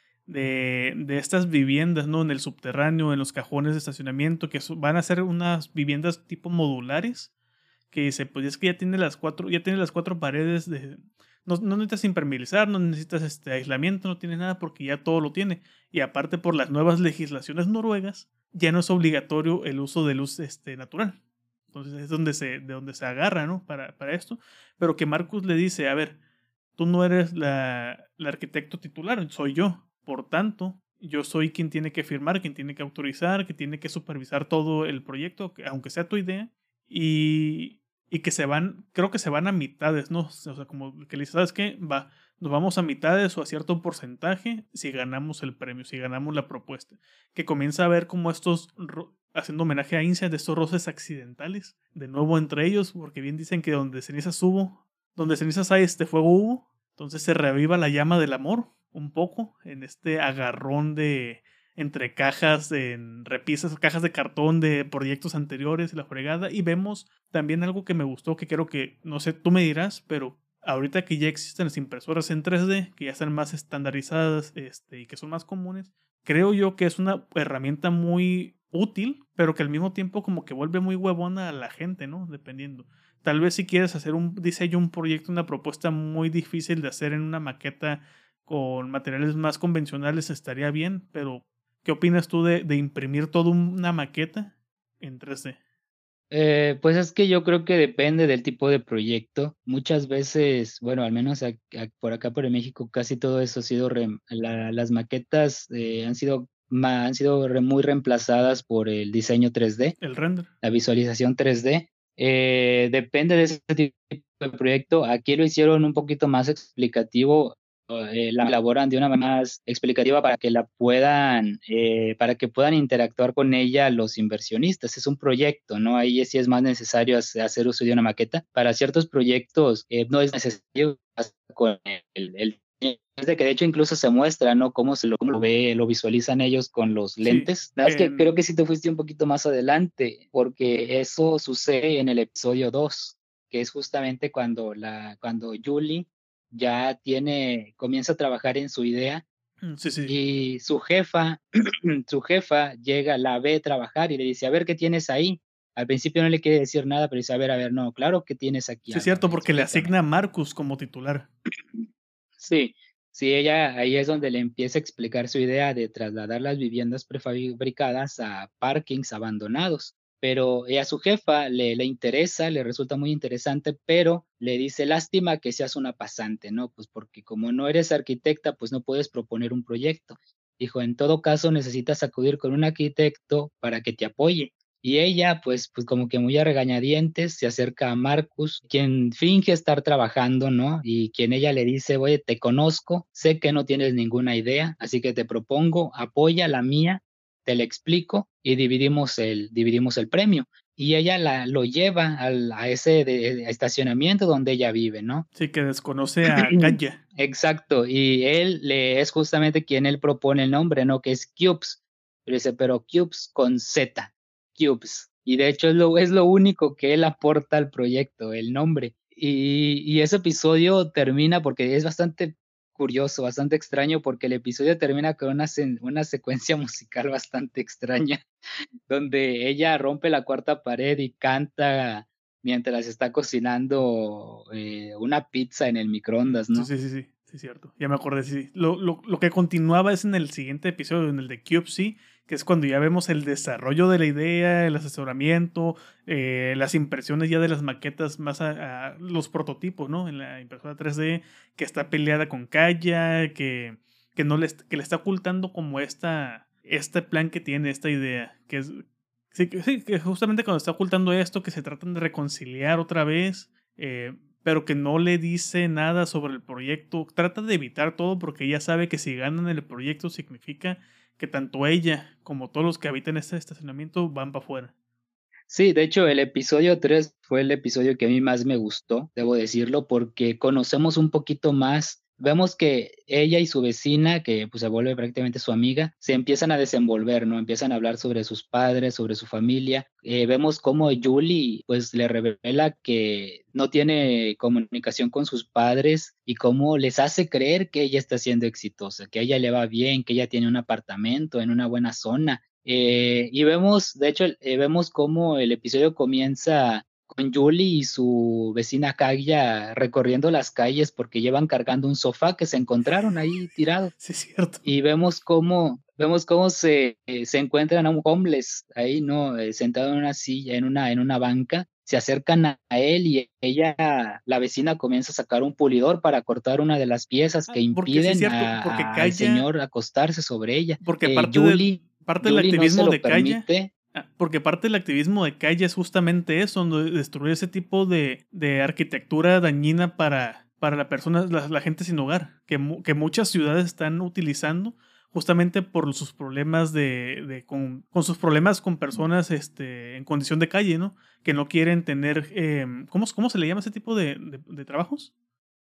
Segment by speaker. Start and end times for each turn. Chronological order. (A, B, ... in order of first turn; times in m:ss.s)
0:00.3-0:07.3 A
0:07.9-0:21.2 A
0:21.7-0:26.2 A
0:26.8-1:35.6 A
1:36.3-1:50.0 B
1:50.0-1:50.5 A
1:50.6-2:29.2 B
2:17.2-2:18.3 A
2:29.6-2:30.2 A
2:30.0-2:31.4 B
2:32.1-2:40.0 B
2:38.9-2:41.3 A
2:42.4-3:25.3 B
3:25.3-3:27.0 A
3:26.5-3:48.2 B
3:48.9-3:56.7 B
3:56.2-4:34.7 A
4:35.5-5:13.9 B
5:13.9-5:14.6 A
5:14.6-5:33.7 B
5:27.5-5:29.5 A
5:30.8-5:55.1 A